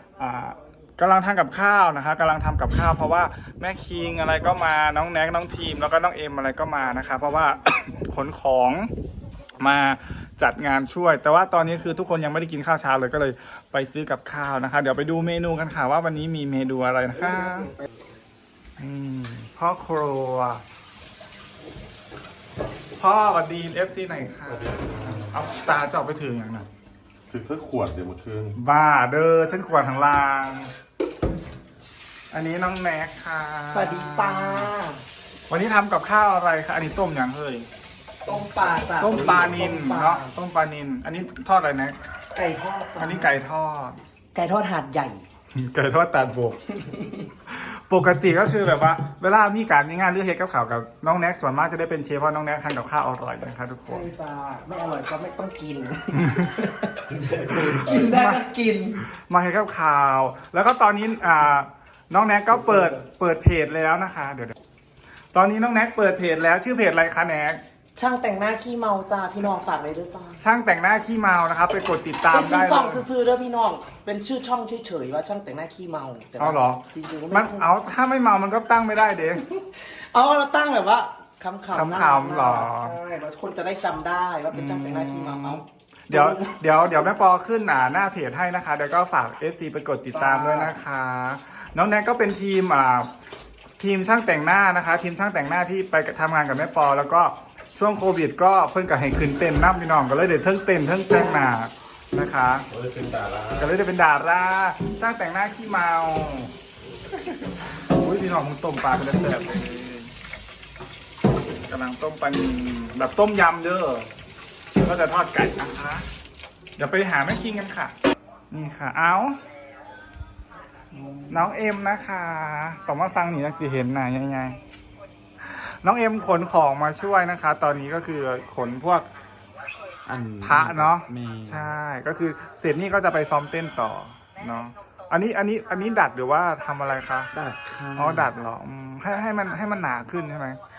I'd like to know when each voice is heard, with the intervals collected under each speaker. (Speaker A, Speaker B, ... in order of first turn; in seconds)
Speaker A: 0.2-8.9, 9.6-17.7, 18.8-20.6, 23.0-26.7, 28.6-30.7, 32.3-34.7, 35.5-37.7, 39.0-42.0, 43.0-44.0, 45.5-46.8, 47.5-54.1, 56.2-56.5, 57.5-58.5, 59.0-64.5, 65.3-67.6, 70.4-73.1, 76.4-79.5, 81.7-83.0, 84.5-93.1, 93.8-102.7, 103.5-106.5, 107.3-110.1, 111.6-114.1, 114.8-116.1, 116.8-118.0, 118.5-119.4, 121.3-124.6, 125.4-129.1, 130.4-137.3, 137.9-140.6
Speaker B: 24.6-25.3, 27.3-28.6, 102.7-103.6
Speaker C: 33.7-35.0, 38.3-40.3, 42.3-43.4, 44.3-45.2, 53.9-59.0, 68.0-70.4, 72.3-77.7, 79.5-86.6, 90.1-90.8
Speaker D: 120.9-121.5, 130.1-131.7, 137.3-138.3